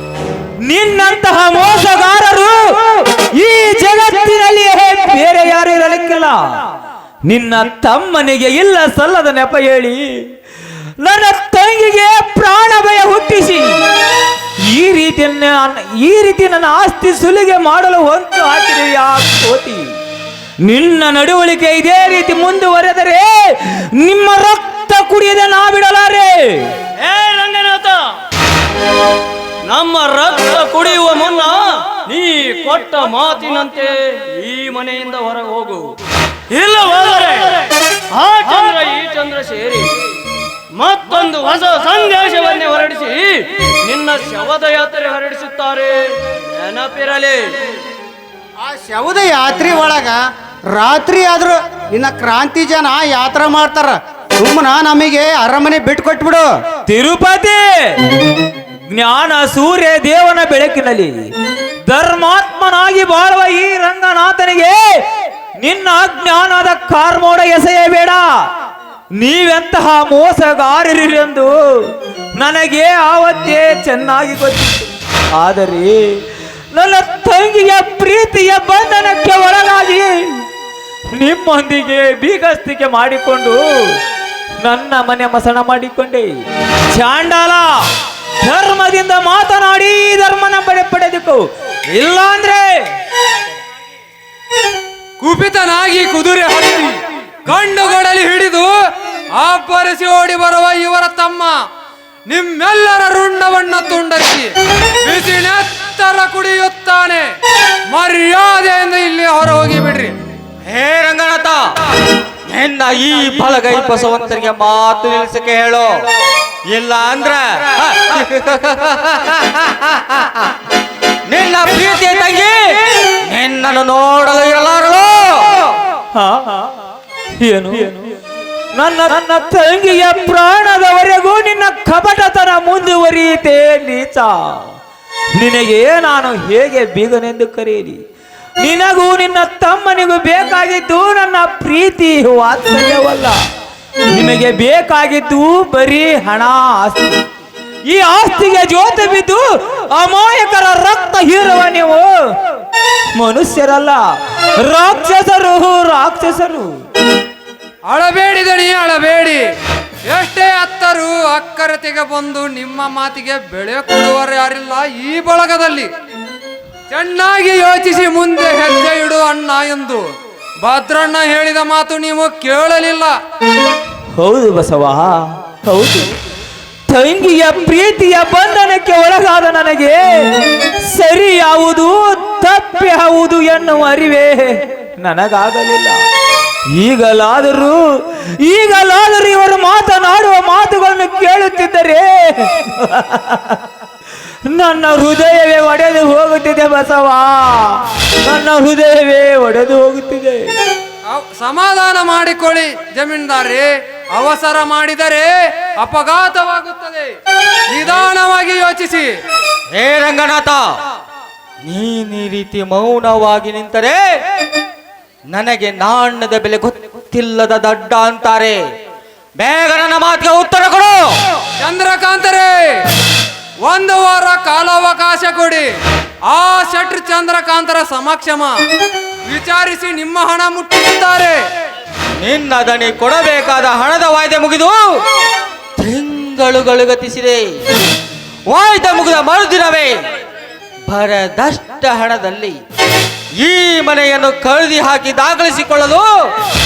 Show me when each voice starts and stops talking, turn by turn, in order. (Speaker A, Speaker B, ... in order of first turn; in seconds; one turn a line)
Speaker A: 0.6-6.7
Speaker A: 7.3-10.2
Speaker A: 11.0-13.8
Speaker A: 14.6-19.9
Speaker A: 20.6-26.7
Speaker B: 27.0-28.0
Speaker B: 29.7-35.8
Speaker B: 36.5-39.9
Speaker B: 40.8-47.4
Speaker C: 48.6-50.2
Speaker C: 50.7-56.5
Speaker A: 56.9-58.0
Speaker A: 58.9-61.3
Speaker A: 61.9-65.0
Speaker A: 65.6-68.5
Speaker A: 69.2-80.4
Speaker A: 81.1-84.0
Speaker A: 84.6-86.3
Speaker A: 86.9-87.7
Speaker A: 88.4-92.9
Speaker D: 95.2-96.9
Speaker D: 97.5-98.7
Speaker D: 99.4-101.5
Speaker D: 102.3-104.5
Speaker D: 105.0-107.2
Speaker D: 107.9-110.1
Speaker E: 110.7-111.6
Speaker E: 112.5-115.9
Speaker E: 116.7-120.3
Speaker E: 121.3-122.6
Speaker E: 123.2-125.4
Speaker A: 126.1-126.8
Speaker A: 127.4-128.2
Speaker A: 128.7-134.8
Speaker A: 135.3-138.0
Speaker A: 138.6-143.4
Speaker A: 144.1-147.2
Speaker A: 147.9-152.1
Speaker A: 153.1-154.0
Speaker A: 154.6-156.8
Speaker D: 157.9-159.4
Speaker D: 160.1-165.9
Speaker D: 166.9-170.0
Speaker D: 170.6-173.1
Speaker A: 174.1-176.1
Speaker A: 176.9-186.0
Speaker A: 186.7-193.6
Speaker A: 194.5-200.6
Speaker D: 201.1-207.1
Speaker D: 207.7-209.1
Speaker E: 209.7-210.6
Speaker E: 211.6-214.0
Speaker E: 215.3-218.6
Speaker E: 219.4-221.1
Speaker D: 221.6-222.7
Speaker D: 223.6-225.6
Speaker D: 226.3-228.5
Speaker D: 229.3-231.3
Speaker E: 232.2-234.8
Speaker E: 235.8-237.4
Speaker E: 238.5-239.9
Speaker E: 240.9-242.5
Speaker E: 243.4-246.1